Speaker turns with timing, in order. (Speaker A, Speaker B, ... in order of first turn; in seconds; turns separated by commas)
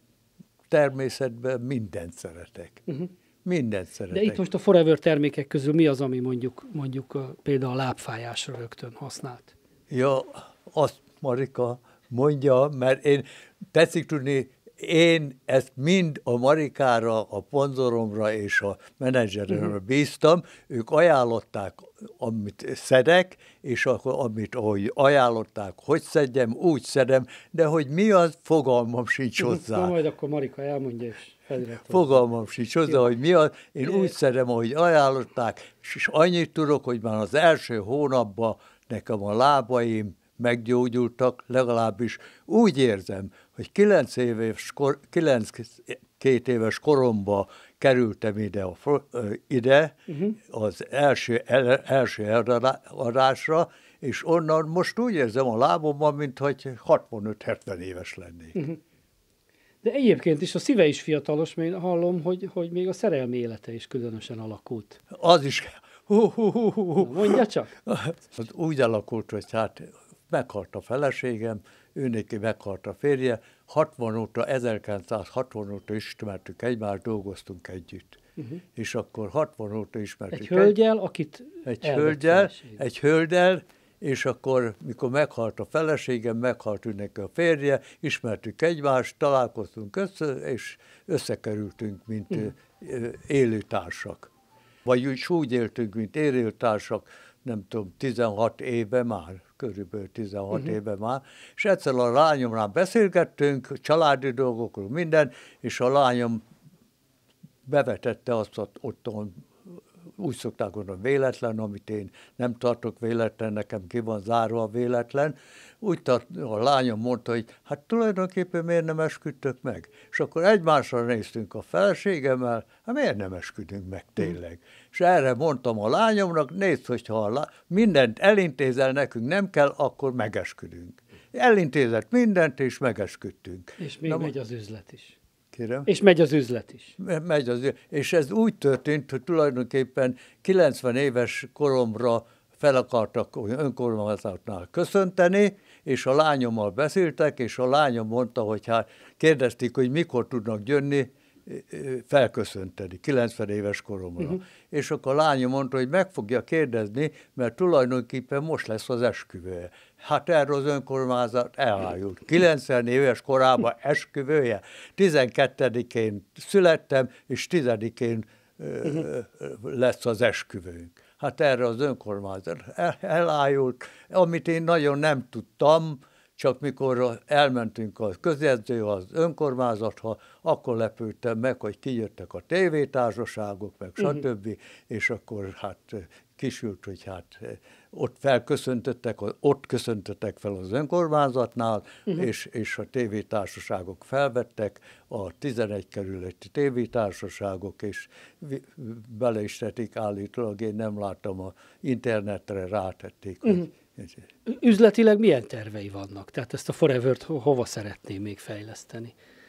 Speaker A: 0.7-2.8, Speaker A: 3.4-4.4, Speaker B: 4.1-9.5, Speaker A: 9.9-29.9, Speaker B: 29.4-32.2, Speaker A: 31.9-58.6, Speaker B: 50.1-50.4, Speaker B: 59.8-65.0, Speaker A: 65.1-78.2, Speaker B: 67.0-67.7, Speaker A: 78.7-80.7, Speaker B: 80.3-82.8, Speaker A: 81.6-94.3, Speaker A: 94.8-106.4, Speaker A: 107.7-109.5, Speaker A: 110.2-134.3, Speaker B: 133.8-135.2, Speaker A: 135.5-135.9, Speaker B: 135.8-136.9, Speaker A: 137.0-204.2, Speaker B: 204.4-209.1